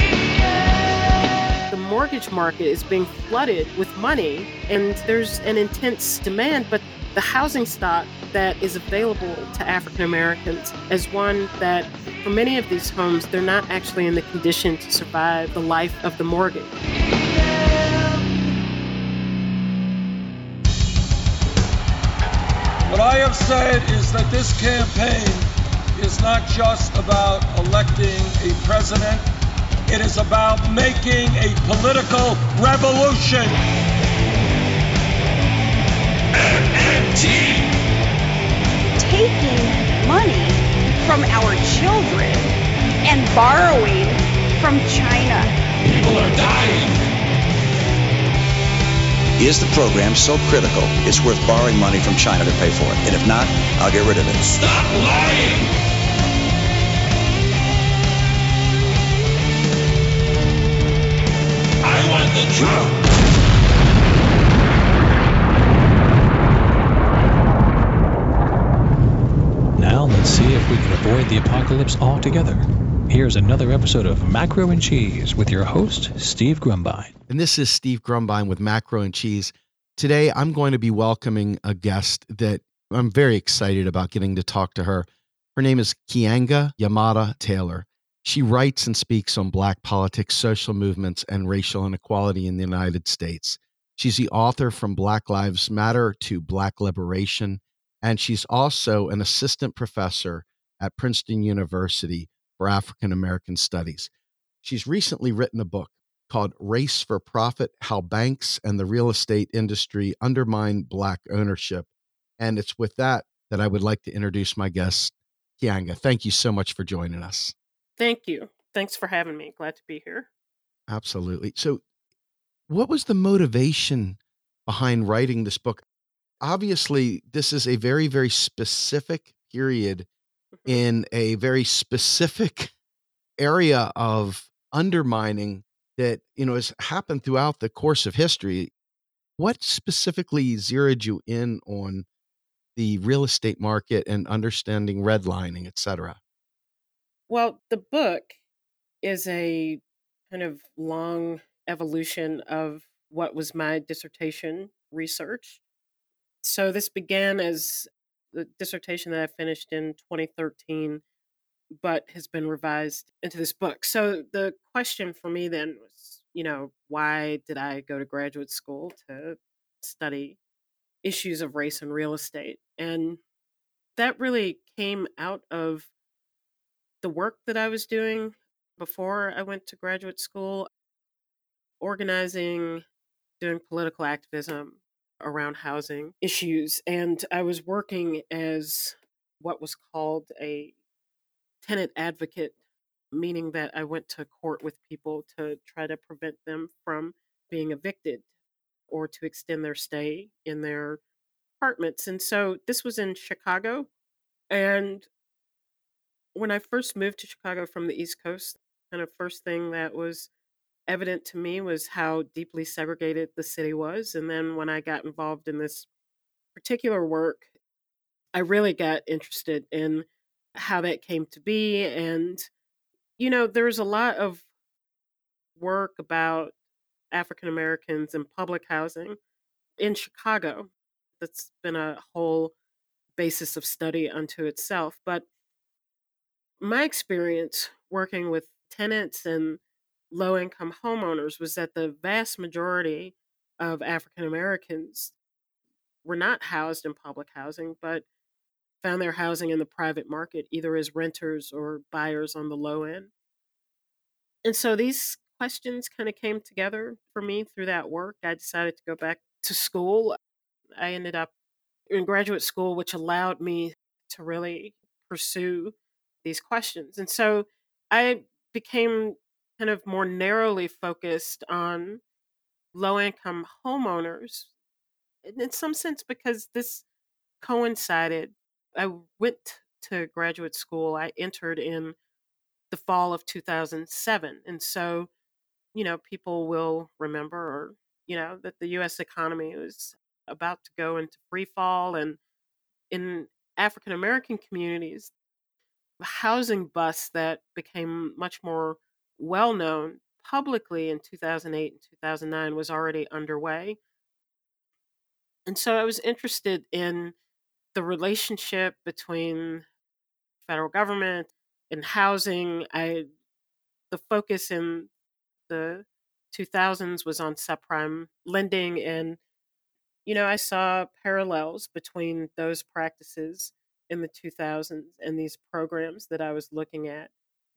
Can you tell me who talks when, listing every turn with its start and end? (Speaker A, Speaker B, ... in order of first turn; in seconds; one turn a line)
Speaker A: 1.7-16.7
Speaker B: 22.9-29.2
Speaker B: 29.9-33.6
Speaker C: 36.3-37.8
Speaker D: 39.0-42.5
Speaker D: 43.0-45.5
Speaker C: 45.8-47.0
Speaker E: 49.4-54.5
Speaker C: 54.5-55.7
Speaker C: 61.8-63.0
Speaker F: 69.8-77.1
Speaker G: 77.3-104.1
Speaker G: 104.6-111.9
Speaker G: 112.4-117.5
Speaker A: 118.0-120.3
Speaker G: 120.9-121.8
Speaker G: 122.7-125.8
Speaker G: 126.4-130.1
Speaker G: 130.7-132.7
Speaker G: 133.4-138.7
Speaker G: 139.4-142.0
Speaker G: 142.8-146.2
Speaker A: 147.3-148.3
Speaker A: 149.0-155.6
Speaker A: 156.4-161.0
Speaker A: 161.8-170.4
Speaker A: 171.0-173.2
Speaker A: 174.0-175.9
Speaker A: 177.0-180.7
Speaker A: 181.8-182.8
Speaker A: 183.4-190.7
Speaker A: 191.6-192.5
Speaker A: 193.1-198.2
Speaker A: 198.9-201.0
Speaker A: 201.6-203.9
Speaker A: 204.5-205.1
Speaker A: 206.3-210.3
Speaker A: 210.9-215.9
Speaker A: 216.5-217.5
Speaker A: 218.3-222.5
Speaker A: 223.2-224.4
Speaker A: 225.6-226.5
Speaker A: 227.1-229.2
Speaker A: 229.8-232.5
Speaker A: 233.2-235.3
Speaker A: 236.6-239.6
Speaker A: 240.1-245.1
Speaker A: 246.0-248.0
Speaker A: 248.8-253.1
Speaker A: 254.4-260.1
Speaker A: 260.7-261.3
Speaker A: 261.9-272.0
Speaker A: 272.7-274.5
Speaker A: 275.2-276.8
Speaker A: 277.4-281.9
Speaker A: 282.7-285.1
Speaker A: 285.7-292.2
Speaker A: 292.9-295.1
Speaker A: 296.0-303.8
Speaker A: 305.4-307.1
Speaker A: 307.7-309.6
Speaker A: 310.4-313.1
Speaker A: 313.9-314.9
Speaker A: 315.5-319.2
Speaker A: 320.1-327.1